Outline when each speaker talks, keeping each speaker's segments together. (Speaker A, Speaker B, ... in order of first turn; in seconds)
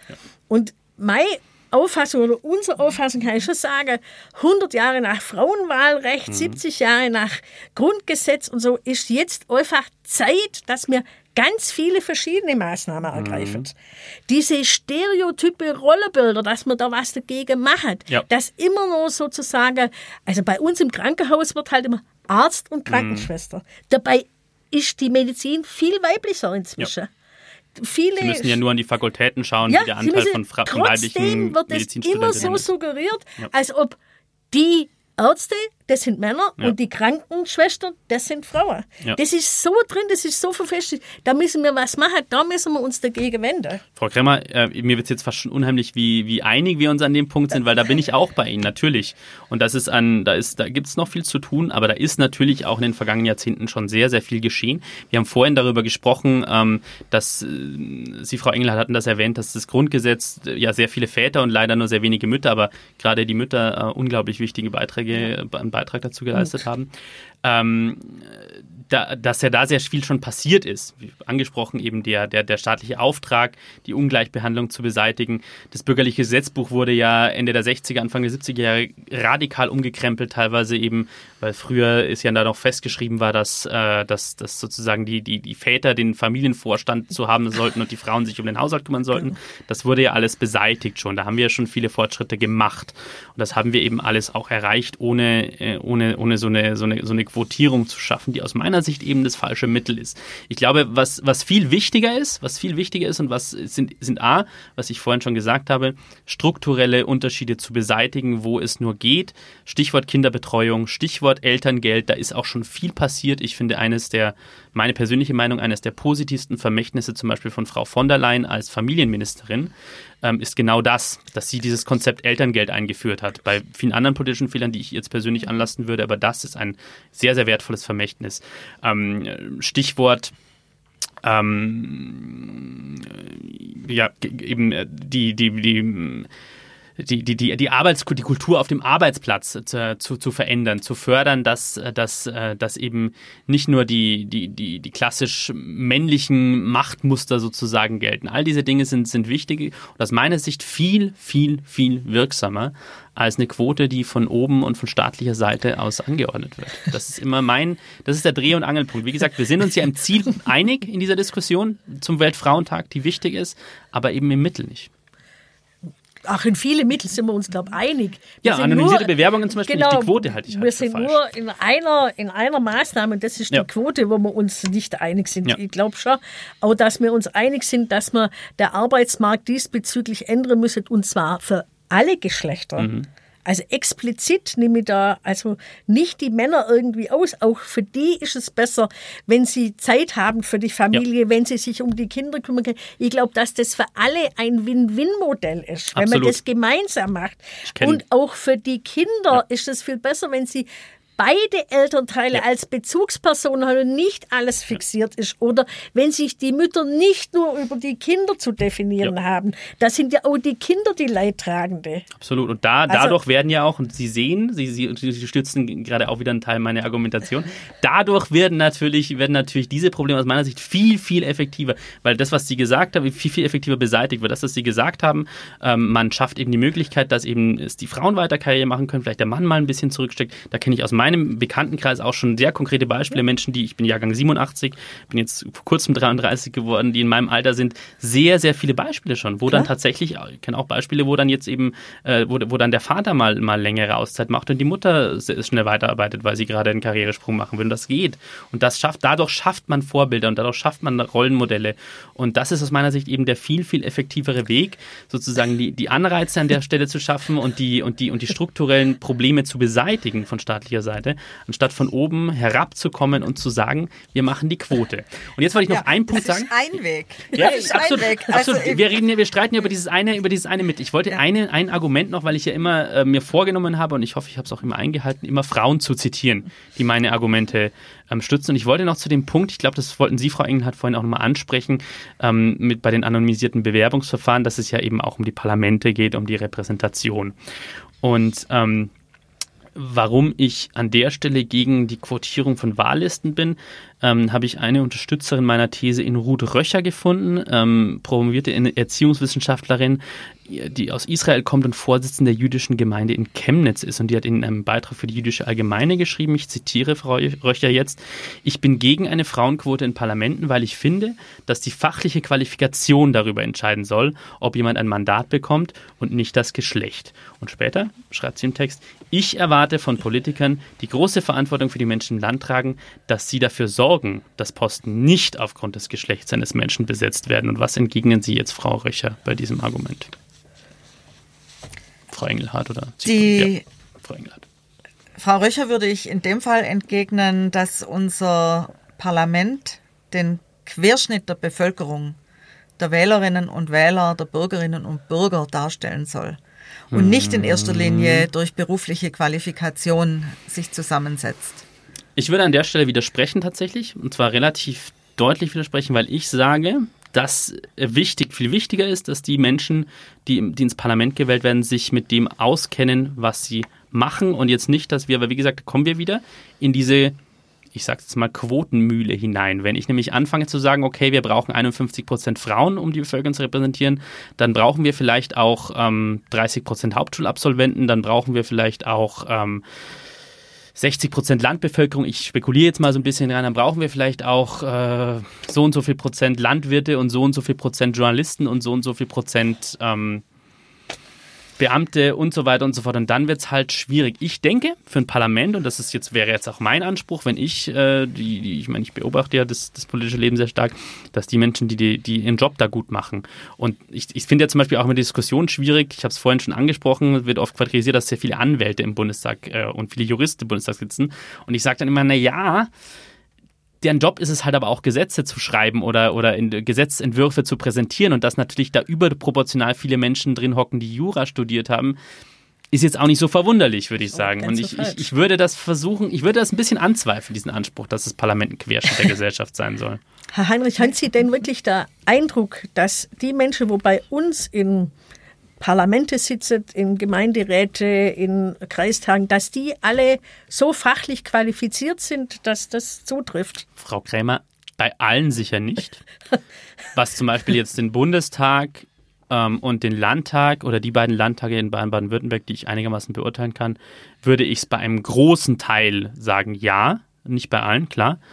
Speaker A: 0.5-13.7, 14.3-27.1, 27.8-28.6, 29.7-34.0, 34.5-43.8, 166.2-182.9, 183.5-212.1, 212.9-213.2, 424.1-425.1, 430.3-434.9, 435.6-443.7
Speaker B: 6.3-6.6, 13.1-13.7, 22.9-23.3, 28.2-32.7, 44.0-66.9, 67.4-130.3, 131.2-136.3, 137.0-164.9, 168.4-171.2, 182.8-183.1, 195.9-196.4, 197.7-198.0, 212.2-266.5, 267.3-287.4, 288.0-288.9, 289.8-330.1, 332.1-334.4, 346.9-348.3, 352.2-367.2, 367.7-379.6, 380.8-390.2, 391.6-412.7, 413.8-422.0, 422.7-430.0, 443.8-446.0, 446.9-458.2
Speaker C: 265.7-269.0, 333.1-333.6, 335.2-342.2, 342.8-346.4, 346.9-351.6